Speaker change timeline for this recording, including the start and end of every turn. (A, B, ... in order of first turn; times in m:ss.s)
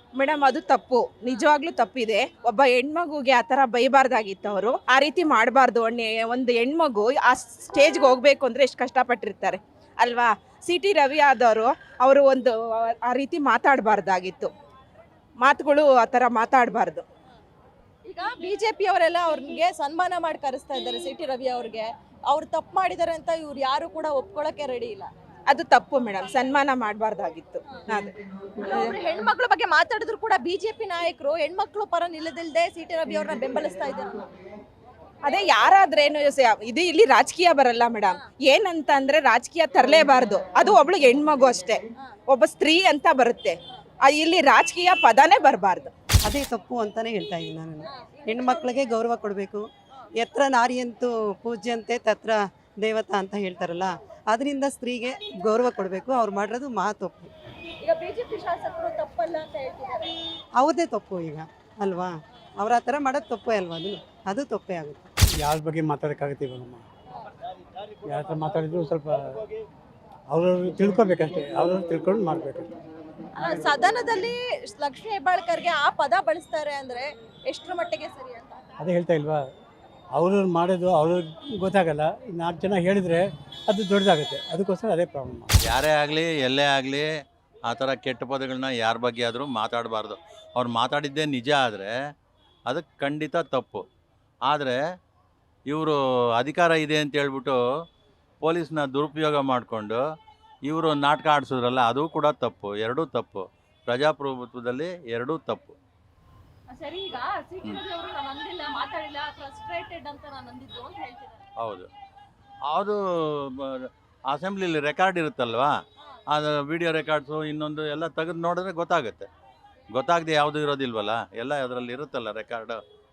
0:00.2-0:14.5 A
0:15.4-0:17.0 A
0:18.1-0:25.1 B
0:25.5-0:28.1 A
0:28.6-0:34.2 B
0:35.2-0:45.9 A
0:46.2-0:49.6 C
0:48.0-0:48.6 B
0:50.2-0:57.3 C
0:57.8-1:00.1 B
1:00.6-1:05.1 C
1:05.4-1:06.8 D
1:08.0-1:09.2 D
1:10.3-1:12.7 D
1:13.4-1:18.6 B
1:18.8-1:19.4 D
1:20.1-1:25.5 D
1:25.6-1:27.1 E
1:27.7-1:31.9 E
1:32.7-1:33.8 E
1:34.5-1:34.8 E
1:35.7-1:37.6 E
1:38.4-1:40.0 E
1:40.7-1:45.8 E
1:46.7-1:51.4 B
1:51.6-1:51.9 E
1:52.7-1:55.7 E
1:56.3-1:59.3 E
1:59.9-2:02.8 E